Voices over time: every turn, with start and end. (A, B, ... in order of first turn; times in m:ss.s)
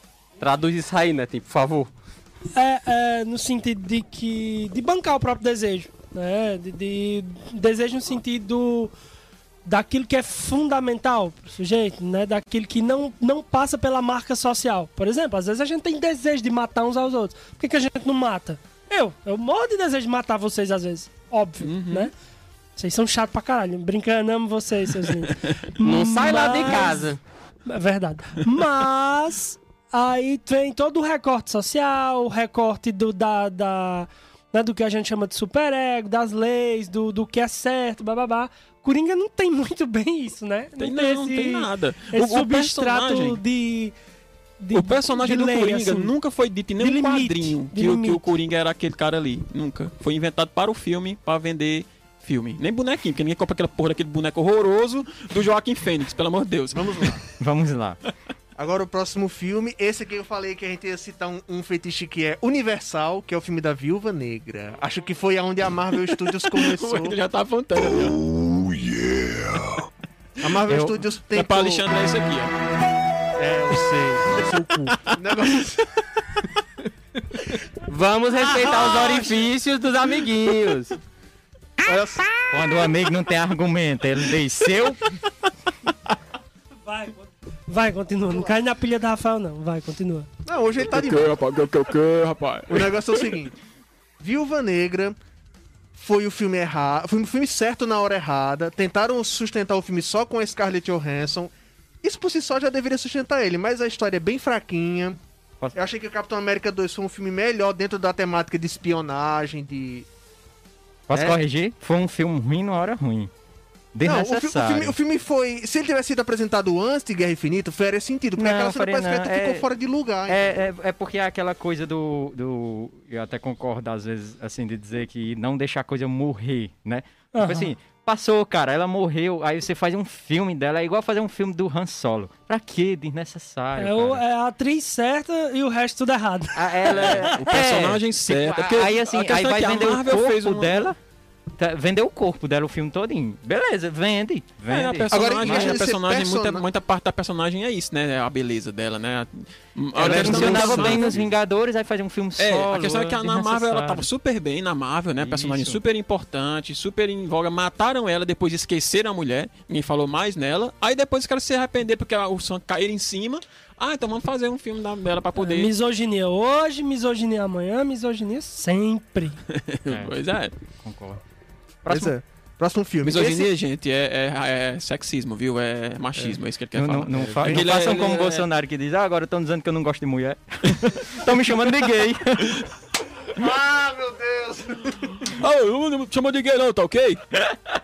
0:00.4-0:01.9 A
0:02.6-0:08.9 B
0:09.6-0:22.1 B
0:21.6-0:22.1 C
0:22.8-0:27.1 B
0:25.8-0:27.2 A
0:27.7-0:44.0 B
0:40.8-0:43.4 C
0:44.6-0:46.1 B
0:44.7-0:57.2 C
0:46.8-0:48.3 B
0:56.7-0:57.2 D
0:57.4-0:58.0 E
0:58.6-1:07.2 D
1:06.1-1:08.2 C
1:09.0-1:09.8 C
1:10.4-1:11.8 D
1:10.7-1:12.5 C
1:13.4-1:15.9 D
1:14.9-1:15.8 C
1:17.9-1:21.0 A
1:18.7-1:19.4 B
1:21.8-1:22.2 D
1:22.5-1:25.1 E
1:26.9-1:30.3 B
1:30.4-1:31.4 D
1:30.9-1:33.4 C
1:32.7-1:33.6 D
1:34.2-1:35.2 D
1:36.0-1:45.2 D
1:45.7-1:50.1 D
1:51.1-1:53.3 E
1:51.1-1:51.4 D
1:53.9-1:55.0 E
1:54.0-2:00.4 D
1:58.4-1:59.7 E
2:00.3-2:14.2 E
2:07.3-2:07.7 B
2:13.8-2:17.4 B
2:16.5-2:21.0 E
2:16.8-2:17.3 A
2:17.2-2:20.8 C
2:21.6-2:25.8 E
2:24.7-2:31.2 C
2:25.1-2:26.6 D
2:30.0-2:34.0 E
2:30.0-2:31.1 D
2:30.0-2:31.0 A
2:32.4-2:45.7 C
2:35.2-2:35.8 E
2:45.4-2:49.4 B
2:49.5-2:50.5 C
2:49.9-2:50.2 E
2:50.8-2:51.2 E
2:51.8-2:52.1 E
2:51.9-2:53.5 D
2:53.0-2:58.5 C
2:56.7-3:02.7 E
2:57.1-2:57.6 D
3:03.3-3:05.3 D
3:05.2-3:07.5 C